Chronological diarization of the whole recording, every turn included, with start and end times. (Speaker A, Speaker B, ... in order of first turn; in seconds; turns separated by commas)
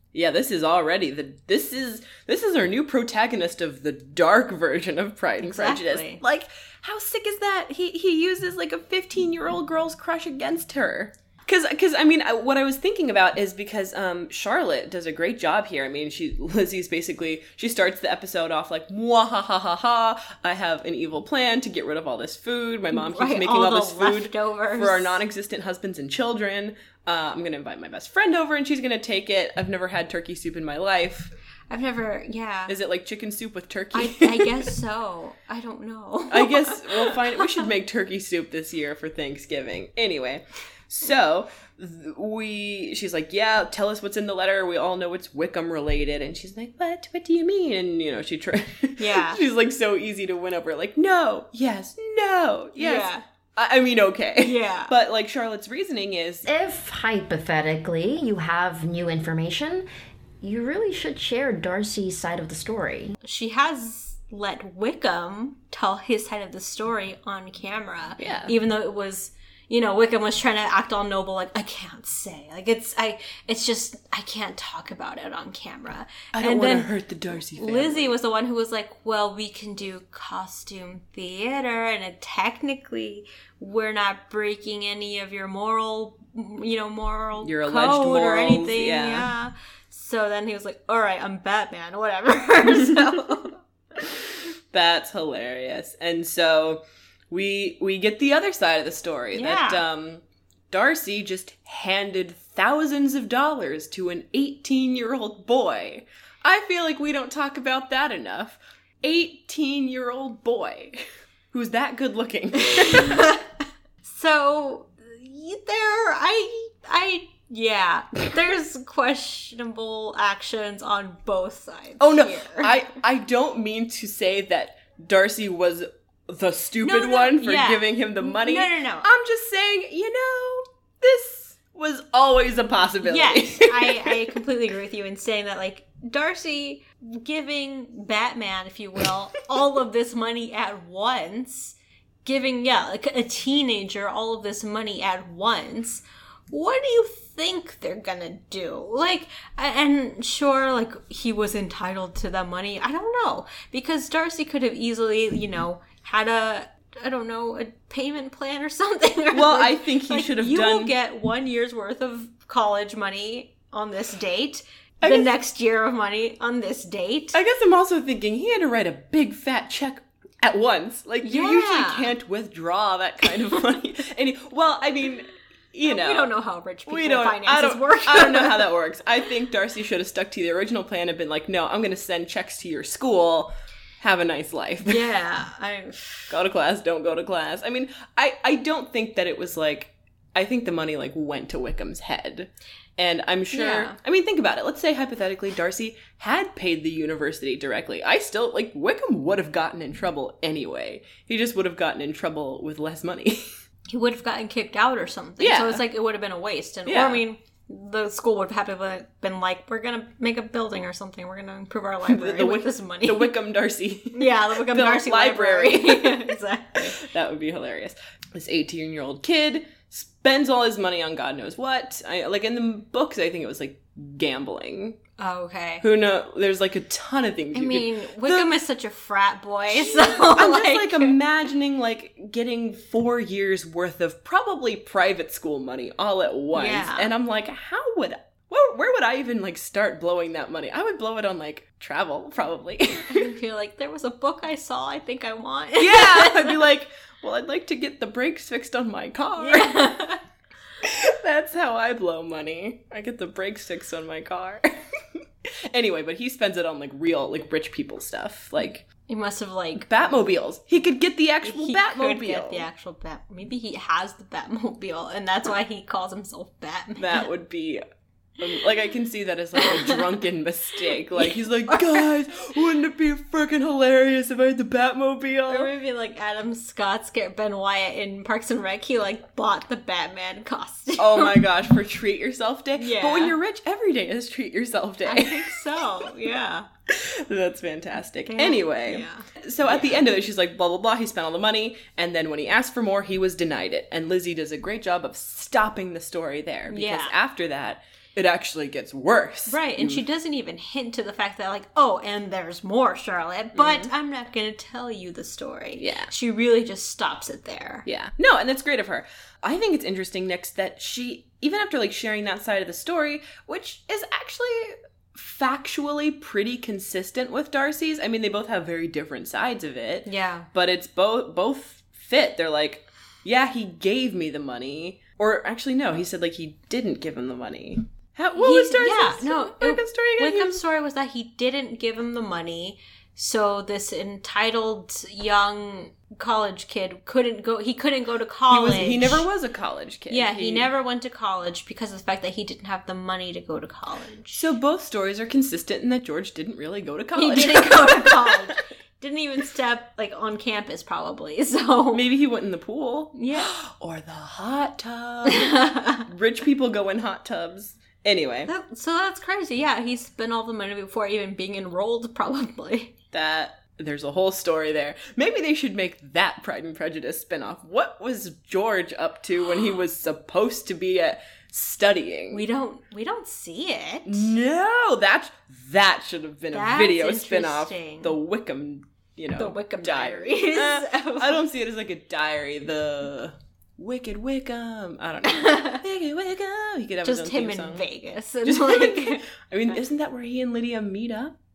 Speaker A: 0.1-31.3, Speaker B: 5.4-6.2, Speaker B: 22.9-25.2, Speaker B: 31.7-32.7, Speaker A: 32.7-34.7, Speaker B: 33.9-37.1, Speaker A: 36.3-56.5, Speaker B: 49.0-49.4, Speaker B: 52.8-53.2, Speaker B: 54.4-54.9, Speaker C: 56.5-59.9, Speaker C: 60.4-63.1, Speaker B: 63.2-76.9, Speaker A: 68.2-68.5, Speaker A: 76.3-78.1, Speaker B: 77.4-94.0, Speaker A: 87.4-89.3, Speaker A: 94.7-113.3, Speaker B: 99.3-99.8, Speaker B: 112.7-113.4, Speaker B: 114.0-122.7, Speaker A: 122.0-134.2, Speaker B: 126.8-129.0, Speaker B: 133.0-167.3, Speaker A: 159.3-160.9, Speaker A: 165.0-165.3, Speaker A: 167.3-176.3, Speaker B: 171.2-172.1, Speaker B: 175.8-178.7, Speaker A: 176.9-185.0, Speaker B: 184.8-186.3, Speaker A: 186.3-203.5, Speaker B: 193.5-194.0, Speaker B: 203.9-213.3, Speaker A: 205.4-205.8, Speaker A: 206.8-207.2, Speaker A: 212.1-225.0, Speaker B: 214.1-217.0, Speaker B: 225.2-225.8, Speaker A: 225.8-228.5, Speaker B: 227.5-231.1, Speaker A: 229.7-243.3, Speaker B: 236.5-237.1, Speaker B: 243.1-246.7, Speaker A: 245.8-249.8, Speaker B: 249.4-250.2, Speaker A: 250.8-258.9, Speaker B: 259.1-259.9, Speaker A: 259.8-262.7, Speaker B: 261.4-267.2, Speaker A: 267.0-267.8, Speaker A: 268.4-275.7, Speaker B: 269.6-270.1, Speaker B: 271.2-272.1, Speaker B: 275.5-281.4, Speaker A: 281.0-286.1, Speaker B: 282.8-283.4, Speaker B: 285.0-286.7, Speaker A: 286.9-300.0, Speaker B: 288.3-289.9, Speaker B: 296.7-297.1, Speaker B: 299.5-307.8, Speaker A: 303.5-303.9, Speaker A: 305.8-306.1, Speaker A: 307.8-330.6, Speaker B: 320.1-320.5, Speaker B: 328.4-339.3, Speaker A: 338.5-340.7, Speaker B: 340.1-344.3, Speaker A: 344.3-348.6, Speaker B: 347.1-352.0, Speaker A: 351.9-358.5, Speaker B: 353.1-353.5, Speaker B: 355.3-356.0, Speaker B: 358.5-362.9, Speaker A: 363.1-372.4, Speaker B: 372.3-374.3, Speaker A: 374.1-387.8, Speaker B: 376.5-378.1, Speaker B: 379.4-381.4, Speaker B: 385.3-385.8, Speaker B: 387.0-389.2, Speaker A: 388.4-391.4